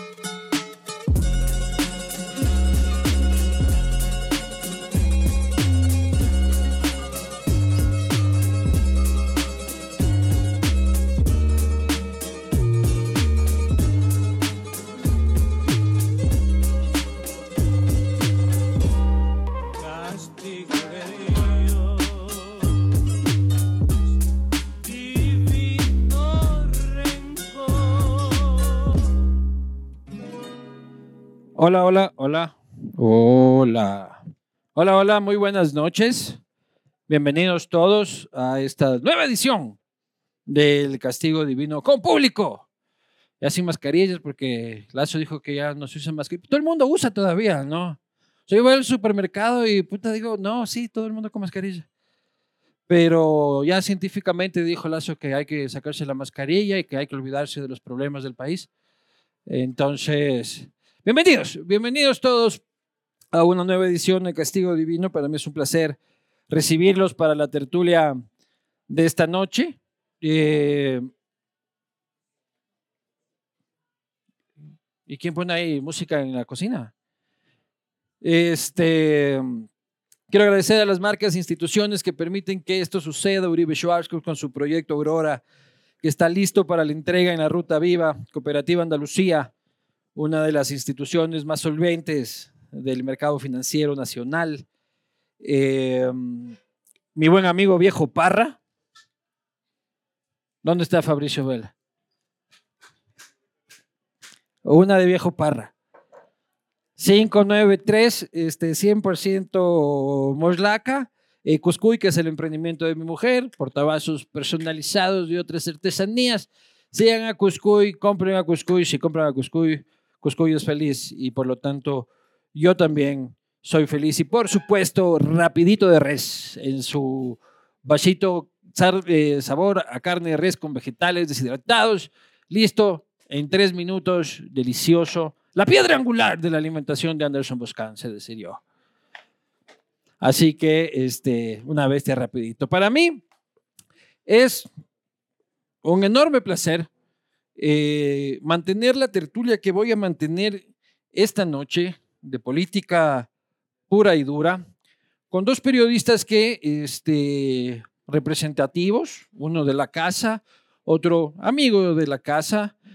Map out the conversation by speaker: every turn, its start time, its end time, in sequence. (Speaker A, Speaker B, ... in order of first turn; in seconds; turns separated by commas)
Speaker A: 31.6-34.2, Speaker A: 34.8-36.4, Speaker A: 37.1-39.8, Speaker A: 40.5-42.6, Speaker A: 43.4-51.9, Speaker A: 52.9-58.7, Speaker A: 59.5-62.6, Speaker A: 63.3-66.0, Speaker A: 66.5-68.2, Speaker A: 68.9-71.1, Speaker A: 75.1-76.9, Speaker A: 78.2-79.7, Speaker A: 80.3-85.4, Speaker A: 86.0-89.5, Speaker A: 90.2-94.7, Speaker A: 95.4-96.6, Speaker A: 97.2-98.6, Speaker A: 100.6-101.7, Speaker A: 104.6-105.7, Speaker A: 107.0-138.6, Speaker A: 140.2-143.2, Speaker A: 144.3-144.7, Speaker A: 145.8-146.9, Speaker A: 147.6-153.3, Speaker A: 153.9-154.6, Speaker A: 155.3-162.7